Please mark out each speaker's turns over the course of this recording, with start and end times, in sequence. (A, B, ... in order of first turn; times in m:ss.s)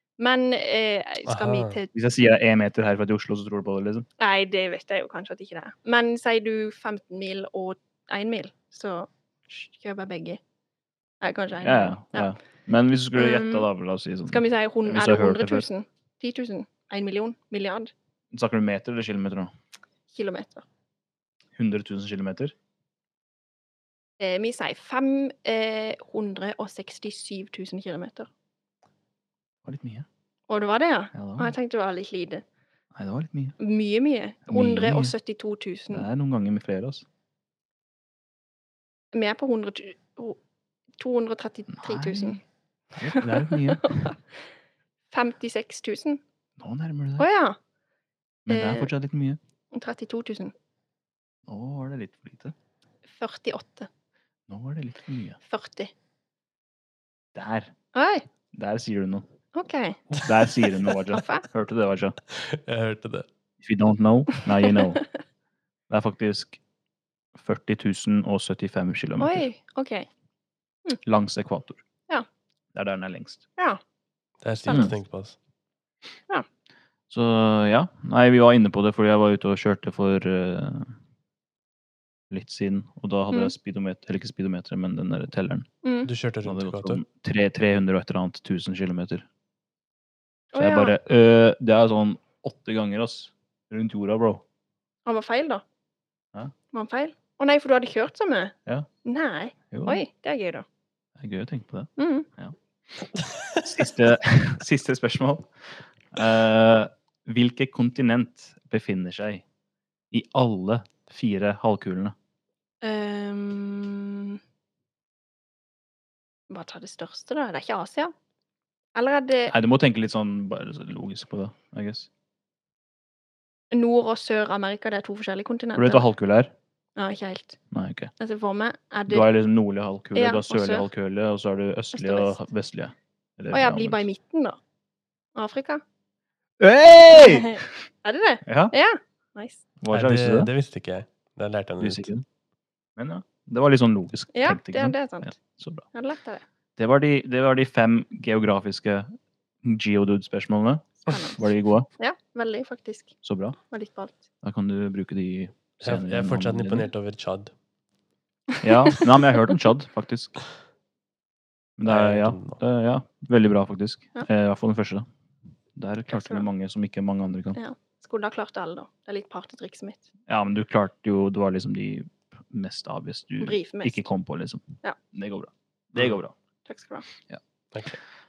0:00.2-0:01.9 A
0:01.3-0:01.8 B
0:01.9-0:04.1 C
0:04.2-0:10.4 A
0:11.2-0:12.3 A
0:11.6-0:15.7 C
0:13.1-0:13.7 A
0:14.3-0:17.9 A
0:18.3-0:19.5 C
0:20.1-0:20.6 A
0:21.6-0:22.5 C
0:24.2-0:28.3 A
0:29.6-0:30.0 C
0:30.5-0:32.4 A
0:31.1-0:31.5 C
0:32.9-0:33.6 C
0:33.6-0:36.1 A
0:34.5-0:35.1 C
0:35.9-0:37.0 C
0:39.1-0:40.4 A
0:41.0-0:42.4 A
0:41.7-0:42.4 C
0:43.0-0:44.1 C
0:43.1-0:44.3 A
0:45.1-0:46.2 A
0:46.6-0:47.3 C
0:47.2-0:47.6 A
0:48.5-0:49.4 C
0:48.5-0:48.9 A
0:49.7-0:50.5 A
0:51.5-0:52.5 C
0:53.1-0:53.9 A
0:54.5-0:55.4 C
0:55.4-0:55.9 A
0:57.3-0:57.7 C
0:57.9-0:58.2 A
0:58.5-0:59.2 C
0:59.5-1:00.1 A
1:00.2-1:02.2 C
1:01.1-1:01.4 A
1:02.3-1:03.3 B
1:03.6-1:05.0 C
1:05.9-1:06.6 C
1:07.3-1:09.4 C
1:09.2-1:10.1 A
1:11.0-1:11.8 C
1:12.7-1:13.4 C
1:14.4-1:15.4 B
1:14.7-1:14.9 A
1:17.1-1:20.9 C
1:22.3-1:25.7 C
1:25.8-1:26.1 A
1:26.0-1:27.0 B
1:26.4-1:29.2 C
1:30.5-1:31.0 A
1:30.6-1:34.4 C
1:35.0-1:35.6 A
1:36.7-1:40.6 A
1:39.7-1:40.0 C
1:41.2-1:42.5 C
1:42.0-1:42.3 A
1:43.2-1:43.6 B
1:43.6-1:49.4 C
1:50.1-1:52.1 C
1:52.8-1:54.4 A
1:56.5-1:58.1 A
1:58.9-1:59.5 A
1:59.5-2:02.1 C
2:03.7-2:06.0 A
2:05.8-2:06.5 C
2:07.0-2:07.6 A
2:07.7-2:08.1 C
2:08.2-2:09.3 A
2:09.1-2:14.0 C
2:10.1-2:10.8 A
2:11.9-2:12.4 A
2:13.5-2:14.6 A
2:15.4-2:15.8 A
2:16.6-2:17.6 C
2:17.2-2:19.6 A
2:18.4-2:18.7 C
2:19.8-2:20.5 C
2:19.9-2:22.1 B
2:21.8-2:22.2 C
2:23.0-2:25.8 C
2:24.3-2:25.3 A
2:25.9-2:26.4 A
2:26.8-2:29.1 C
2:29.6-2:31.9 C
2:31.0-2:33.1 A
2:33.2-2:33.6 C
2:33.7-2:34.2 A
2:34.4-2:36.9 C
2:35.8-2:37.5 B
2:38.6-2:40.4 C
2:41.8-2:45.0 C
2:41.8-2:42.6 B
2:45.8-2:47.6 C
2:46.1-2:46.4 A
2:47.5-2:50.0 A
2:50.3-2:56.3 C
2:53.4-2:54.1 A
2:56.6-2:57.1 A